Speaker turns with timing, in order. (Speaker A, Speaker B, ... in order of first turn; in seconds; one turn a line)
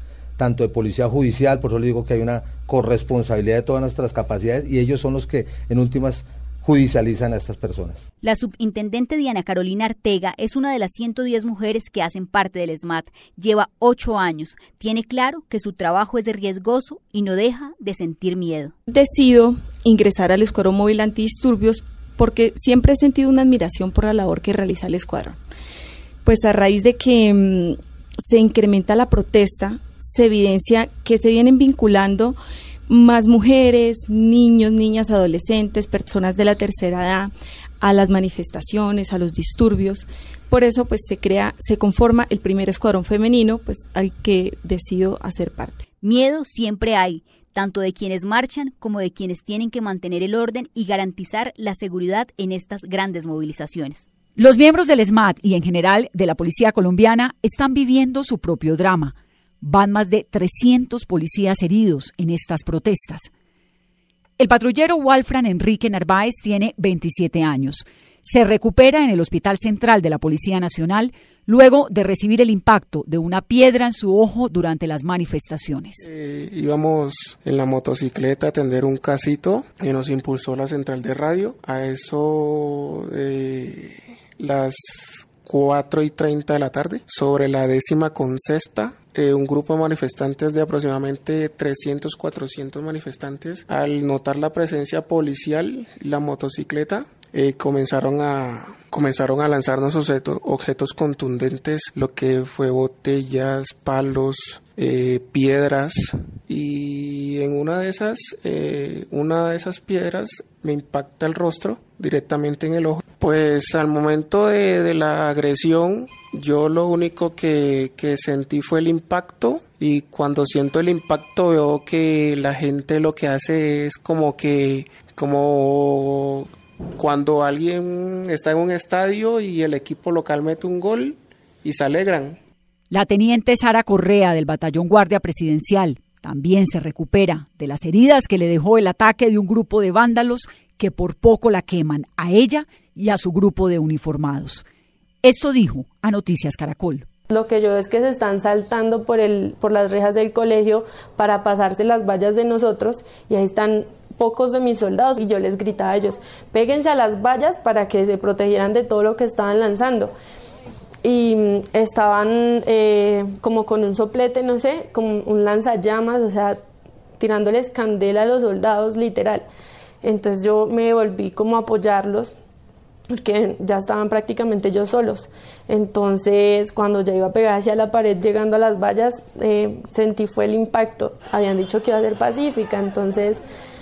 Speaker A: 0.4-8.1
Speaker B: 8.2-18.7
Speaker C: 18.9-25.4
Speaker C: 26.2-45.8
Speaker B: 46.0-54.1
Speaker D: 54.4-63.3
Speaker D: 64.4-76.0
Speaker E: 76.0-132.4
Speaker D: 132.9-144.6
Speaker D: 145.2-147.1
Speaker F: 147.3-160.1
Speaker F: 161.0-166.6
Speaker F: 167.2-169.4
Speaker F: 170.0-172.3
Speaker F: 173.1-183.4